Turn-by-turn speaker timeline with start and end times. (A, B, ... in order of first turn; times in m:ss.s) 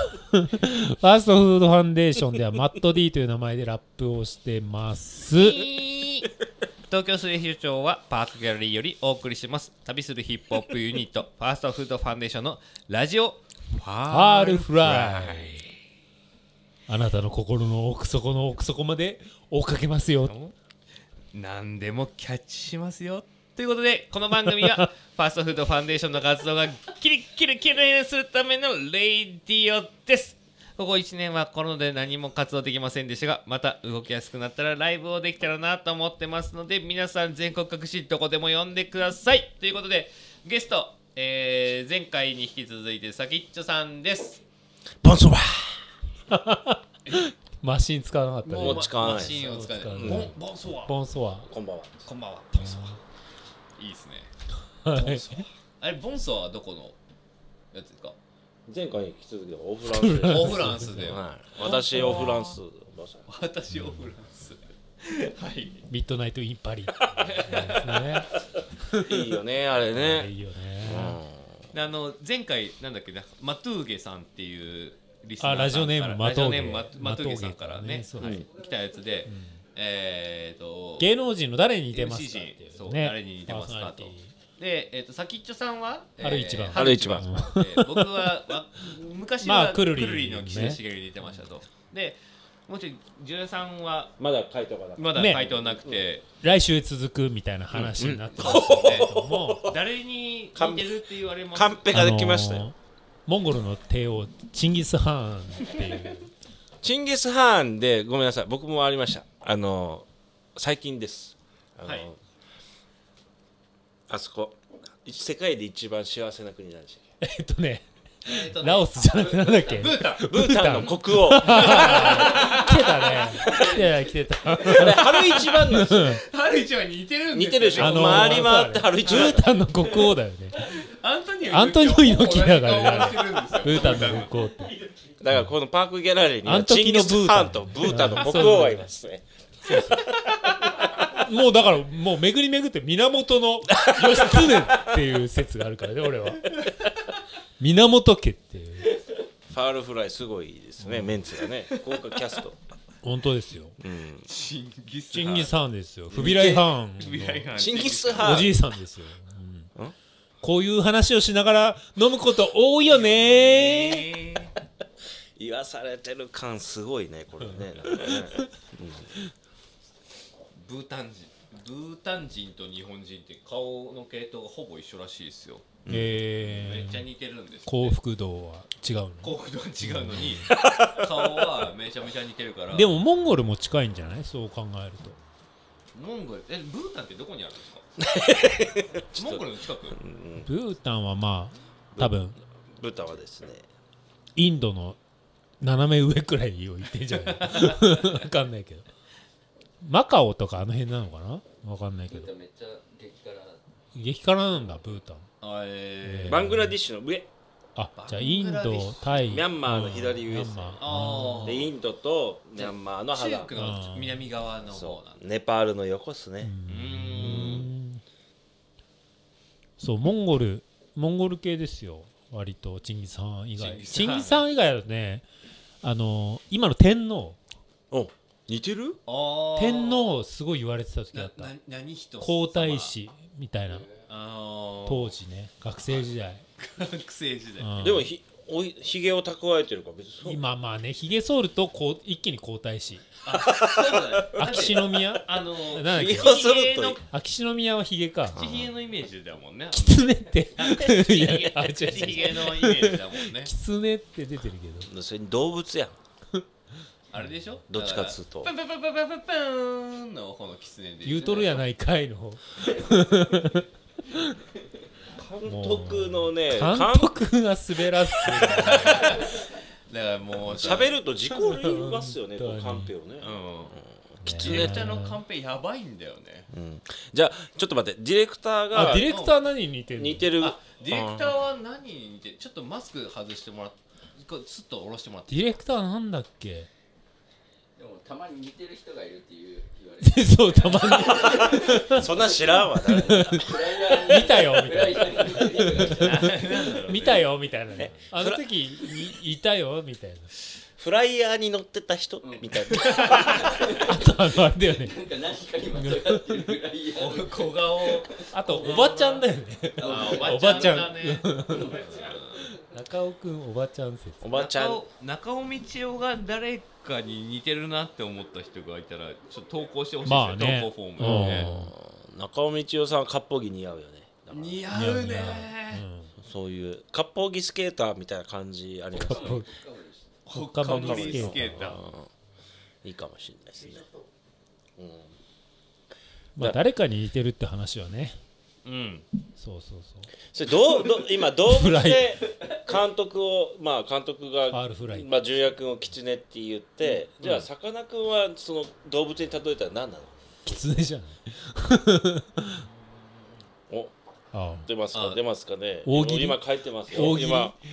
0:00.2-0:05.6 A
0:05.3-0:06.3 B
0:06.9-0:15.6 B
0:14.1-0:15.6 A
0:16.9-0:20.3 A
0:20.3-0:20.6 B
0:21.3-0:44.4 B
0:45.0-0:45.8 C
0:46.3-0:46.8 A
0:47.0-0:47.3 B
0:47.6-0:51.5 A
0:48.4-0:50.9 B
0:48.6-0:50.3 C
0:51.5-0:52.0 C
0:52.0-0:53.0 B
0:52.6-0:52.9 A
0:53.8-0:54.3 B
0:54.8-0:55.3 A
0:55.0-0:55.4 C
0:55.0-0:57.0 B
0:57.7-0:58.2 B
0:58.7-1:03.3 C
0:59.9-1:01.2 A
1:00.2-1:02.6 B
1:02.0-1:02.4 A
1:03.3-1:05.8 B
1:05.9-1:08.3 A
1:07.1-1:08.2 B
1:08.9-1:11.2 A
1:08.9-1:11.7 C
1:11.7-1:21.1 B
1:15.4-1:18.4 A
1:18.2-1:18.4 C
1:19.3-1:19.6 A
1:21.0-1:24.3 A
1:21.9-1:34.1 B
1:26.2-1:28.3 A
1:26.7-1:27.2 C
1:29.4-1:30.8 A
1:34.2-1:36.0 C
1:35.0-1:36.2 B
1:35.1-1:35.4 A
1:36.4-1:39.8 A
1:37.7-1:39.1 B
1:38.0-1:39.7 C
1:39.6-1:41.9 B
1:40.6-1:41.0 C
1:41.5-1:42.7 C
1:41.9-1:42.8 A
1:43.3-1:46.3 A
1:46.8-1:52.2 C
1:51.8-1:52.1 B
1:54.1-1:57.0 C
1:57.2-2:06.2 A
1:58.2-2:00.2 B
2:00.2-2:02.4 C
2:01.3-2:03.6 B
2:04.6-2:06.0 C
2:05.1-2:09.5 B
2:07.3-2:09.5 C
2:07.8-2:10.7 A
2:10.6-2:14.4 B
2:11.4-2:14.8 A
2:15.2-2:20.0 C
2:16.4-2:18.9 A
2:19.7-2:20.0 B
2:21.1-2:26.5 A
2:23.9-2:24.6 C
2:27.6-2:28.9 A
2:29.5-2:32.6 C
2:30.8-2:31.3 A
2:33.0-2:33.8 A
2:33.8-2:34.3 C
2:34.3-2:35.5 B
2:35.1-2:37.5 A
2:36.1-2:38.5 B
2:37.6-2:38.6 C
2:38.2-2:39.7 A
2:40.4-2:44.1 A
2:42.9-2:44.5 B
2:45.4-2:49.1 C
2:47.5-2:48.4 A
2:50.6-2:55.7 B
2:55.8-2:56.1 C
2:55.9-2:57.1 A
2:56.4-2:58.0 B
2:57.7-3:00.5 A
2:59.2-3:03.0 B
3:00.4-3:01.5 C
3:02.7-3:05.2 A
3:05.9-3:07.9 B
3:08.0-3:09.4 C
3:09.1-3:10.0 B
3:10.0-3:10.5 C
3:10.4-3:12.4 A
3:11.9-3:13.7 C
3:14.4-3:15.0 A
3:15.6-3:18.9 A
3:17.3-3:18.1 B
3:19.8-3:22.3 A
3:22.1-3:23.6 D
3:24.0-3:25.3 A
3:25.4-3:26.5 B
3:26.0-3:26.8 A
3:26.3-3:27.3 C
3:27.8-3:31.6 A
3:28.0-3:29.4 B
3:29.3-3:33.5 C
3:30.8-3:31.7 B
3:32.6-3:35.2 B
3:33.5-3:34.3 A
3:34.7-3:36.5 C
3:36.4-3:38.0 A
3:36.7-3:37.7 B
3:37.2-3:37.7 C
3:39.8-3:45.2 A
3:43.6-3:44.4 B
3:45.8-3:47.4 A
3:47.9-3:49.0 C
3:49.1-3:50.2 B
3:49.6-3:51.5 A
3:51.1-3:52.9 B
3:52.2-3:53.9 A
3:54.0-3:55.1 B
3:54.9-3:56.4 A
3:56.6-3:57.7 B
3:57.6-3:58.1 A
3:57.8-4:00.4 C
4:00.2-4:03.1 A
4:03.2-4:07.0 B
4:03.3-4:04.6 C
4:04.3-4:06.4 A
4:05.9-4:07.0 C
4:07.0-4:08.4 A
4:08.3-4:08.7 C
4:08.3-4:13.5 B
4:09.7-4:14.9 A
4:14.8-4:16.0 C
4:17.1-4:21.7 B
4:17.7-4:18.5 C
4:21.0-4:24.2 A
4:25.1-4:27.2 C
4:25.4-4:29.1 A
4:28.3-4:31.0 B
4:30.4-4:34.6 C
4:31.3-4:32.9 A
4:33.2-4:36.5 B
4:34.2-4:35.2 A
4:36.5-4:39.1 C
4:38.7-4:40.3 A
4:38.8-4:39.3 B
4:40.0-4:41.3 C
4:40.4-4:45.6 B
4:45.3-4:46.7 A
4:47.8-4:56.4 D
4:50.0-4:52.1 A
4:51.6-4:53.5 C
4:52.7-5:00.3 A
4:55.8-4:58.0 B
4:57.8-4:59.1 C
5:00.8-5:03.6 C
5:02.2-5:02.5 D
5:02.7-5:03.4 B
5:03.4-5:03.9 D
5:03.7-5:05.0 A
5:04.7-5:08.0 D
5:05.7-5:06.6 A
5:06.9-5:09.2 B
5:08.3-5:11.8 A
5:08.5-5:08.9 D
5:09.8-5:10.9 D
5:09.8-5:12.5 B
5:11.4-5:12.2 D
5:12.7-5:14.2 A
5:14.2-5:14.8 C
5:14.3-5:21.5 B
5:20.0-5:21.7 A
5:21.0-5:24.6 C
5:24.3-5:25.8 B
5:24.7-5:26.1 A
5:26.2-5:29.4 C
5:28.9-5:29.5 A
5:28.9-5:30.2 D
5:30.2-5:31.8 A
5:30.3-5:31.8 B
5:30.6-5:32.1 C
5:32.8-5:33.8 C
5:34.8-5:35.1 C
5:36.4-5:38.2 A
5:38.6-5:39.0 B
5:39.4-5:40.1 A
5:40.3-5:50.1 C
5:41.4-5:42.1 A
5:44.5-5:45.1 A
5:47.2-5:47.5 B
5:50.4-5:52.6 A
5:54.3-5:54.7 A
5:54.6-5:57.5 C
5:54.9-5:55.2 B
5:55.8-5:57.6 A
5:56.9-5:57.2 B